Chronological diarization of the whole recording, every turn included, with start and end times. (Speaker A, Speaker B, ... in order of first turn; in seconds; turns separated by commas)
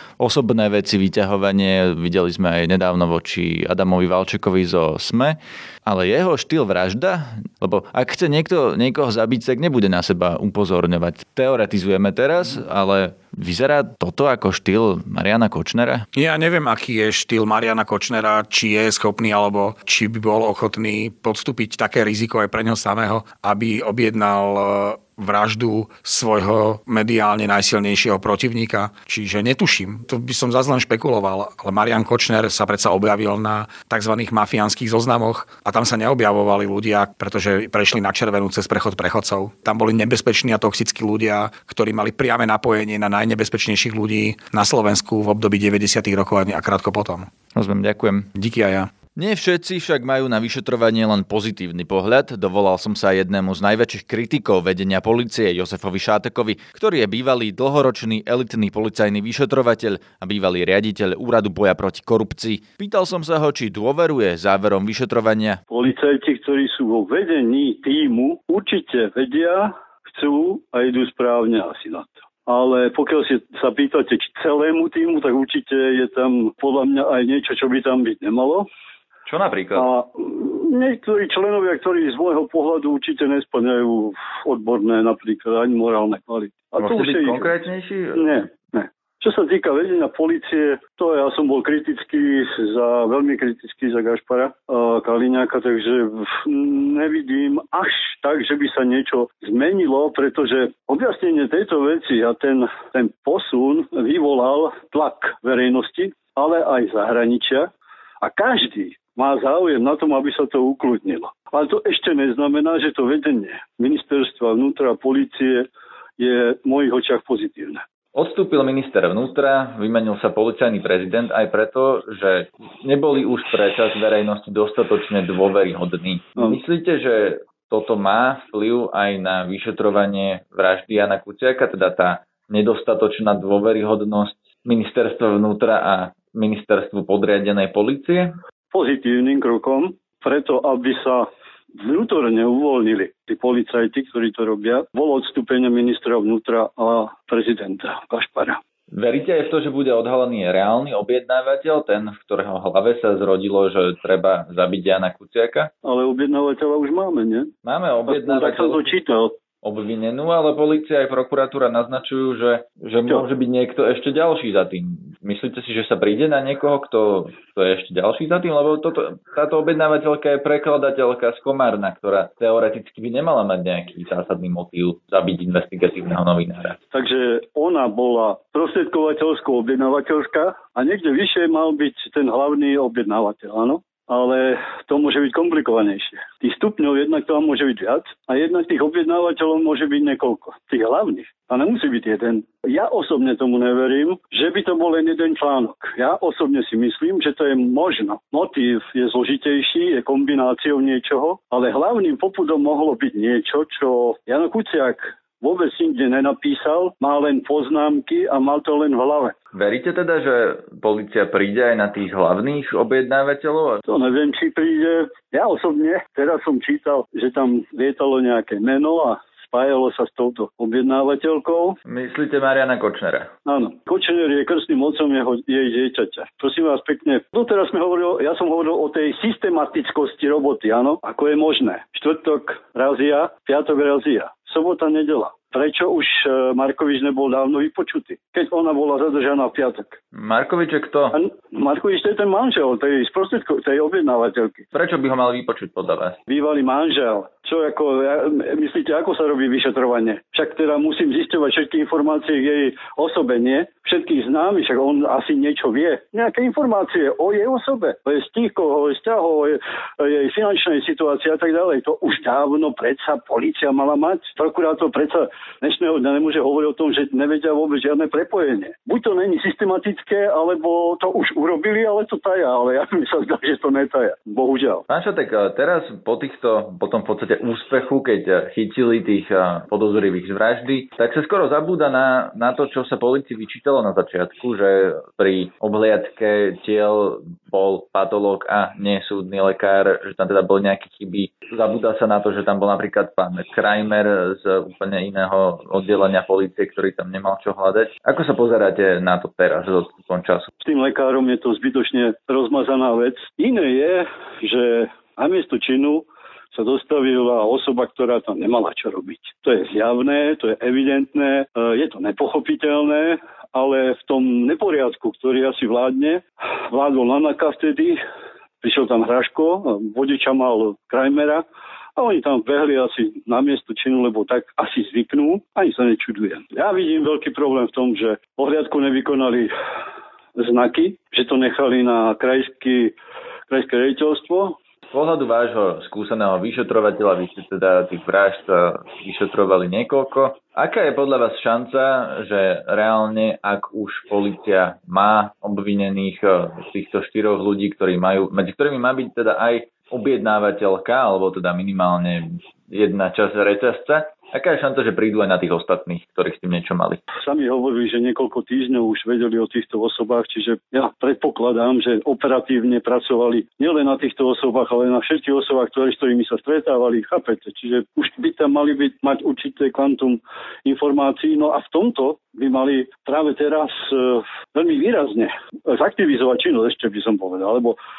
Speaker A: 0.2-16.0, Speaker B: 16.1-47.3, Speaker A: 47.5-48.3, Speaker B: 48.4-48.9, Speaker A: 49.1-65.6, Speaker C: 65.7-78.7, Speaker A: 79.2-79.9, Speaker C: 79.7-107.7, Speaker A: 86.8-88.4, Speaker C: 108.2-115.7, Speaker C: 116.2-117.8, Speaker A: 118.1-138.3, Speaker C: 138.7-141.3, Speaker C: 141.8-148.6, Speaker A: 148.9-155.7, Speaker C: 155.8-157.5, Speaker A: 157.6-159.1, Speaker C: 158.1-159.3, Speaker A: 159.6-176.8, Speaker C: 176.9-209.3, Speaker A: 209.5-213.8, Speaker C: 213.8-221.8, Speaker A: 221.8-223.3, Speaker C: 223.4-240.0, Speaker A: 240.1-241.2, Speaker C: 241.1-244.6, Speaker A: 244.7-246.2, Speaker C: 246.3-274.8, Speaker A: 274.9-300.5, Speaker C: 300.6-318.0, Speaker C: 318.6-321.4, Speaker C: 321.9-329.5, Speaker C: 330.4-332.9, Speaker C: 333.5-334.6, Speaker A: 334.9-357.0, Speaker C: 357.2-377.8